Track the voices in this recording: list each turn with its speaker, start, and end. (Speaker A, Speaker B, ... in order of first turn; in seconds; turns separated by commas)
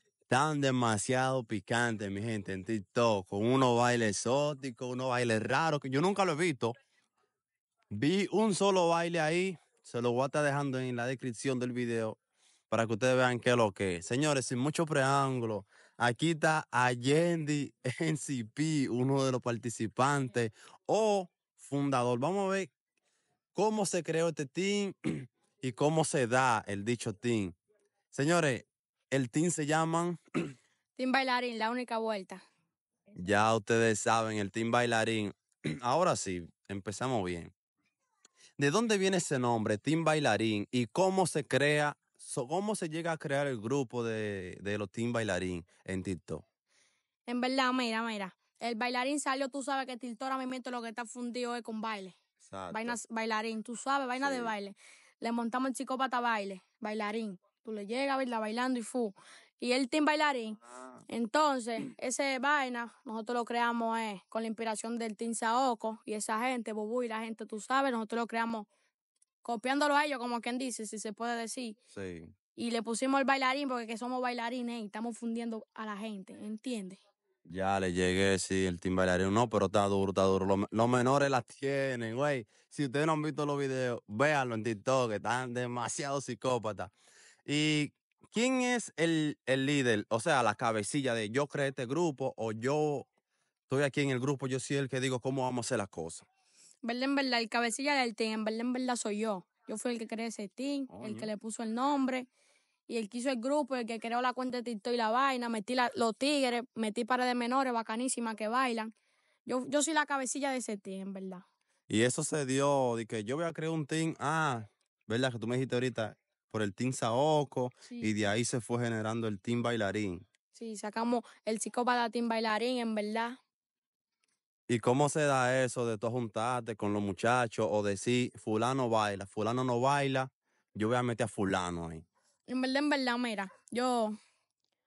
Speaker A: 0.3-6.7, Speaker A: 7.9-12.2, Speaker A: 12.7-22.7, Speaker A: 23.6-27.6, Speaker A: 28.1-30.2, Speaker B: 31.0-32.4, Speaker A: 33.2-37.5, Speaker A: 38.6-46.4, Speaker B: 47.3-52.2, Speaker A: 52.4-53.0, Speaker B: 52.7-68.7, Speaker A: 54.2-54.5, Speaker B: 69.4-71.8, Speaker A: 71.9-72.3, Speaker B: 72.6-77.0, Speaker A: 77.5-86.9, Speaker A: 87.5-93.1, Speaker A: 93.7-96.3, Speaker B: 96.8-102.3, Speaker A: 100.9-101.3, Speaker B: 102.9-108.9, Speaker B: 109.5-111.5, Speaker A: 111.9-120.2, Speaker B: 117.8-118.2, Speaker B: 120.5-123.4, Speaker A: 124.7-132.1, Speaker B: 132.5-134.2